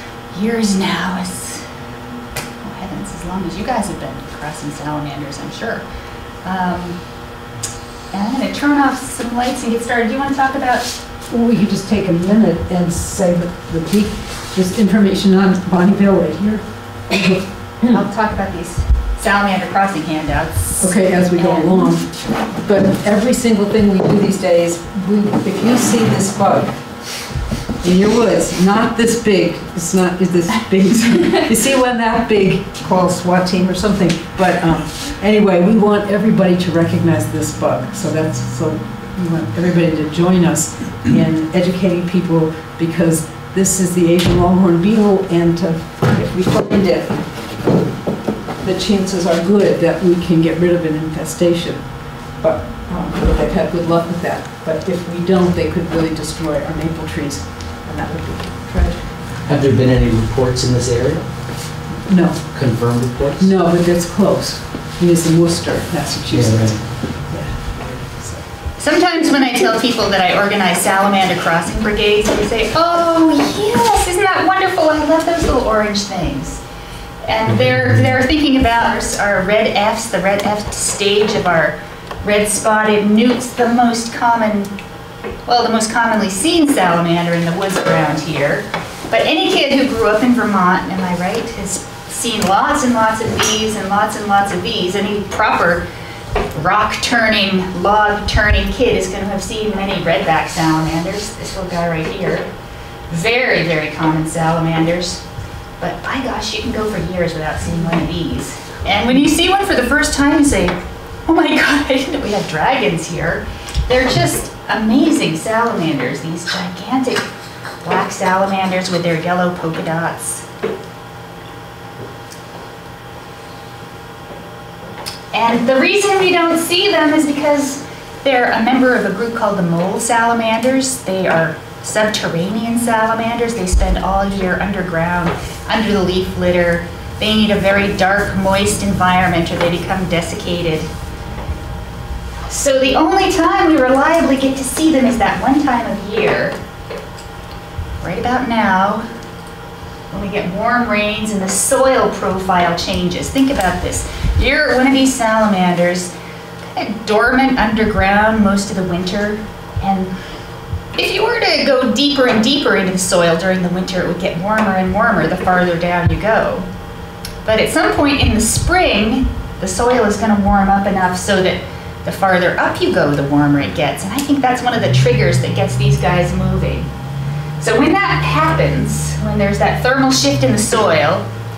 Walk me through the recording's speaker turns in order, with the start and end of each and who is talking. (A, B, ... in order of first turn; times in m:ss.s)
0:00.3-0:01.6 A
0:02.6-0:05.8 A
0:06.4-0:07.0 A
0:08.1-0:10.9 A
0:11.3-0:18.0 B
0:17.9-0:21.9 A
0:20.8-0:47.8 B
0:48.6-0:59.4 B
0:59.4-1:01.3 C
1:01.9-1:02.6 B
1:02.5-1:03.5 C
1:03.4-1:08.4 B
1:06.3-1:07.3 C
1:08.8-1:16.6 A
1:17.2-1:24.7 A
1:25.4-1:35.8 A
1:36.5-1:42.5 A
1:43.1-1:45.2 A
1:45.8-1:57.3 A
1:57.8-2:00.4 A
2:05.3-2:20.9 A
2:22.5-2:26.6 A
2:28.0-2:29.0 A
2:30.1-2:36.1 A
2:36.7-2:40.1 A
2:41.0-2:46.6 A
2:47.4-2:56.9 A
2:57.6-3:01.2 A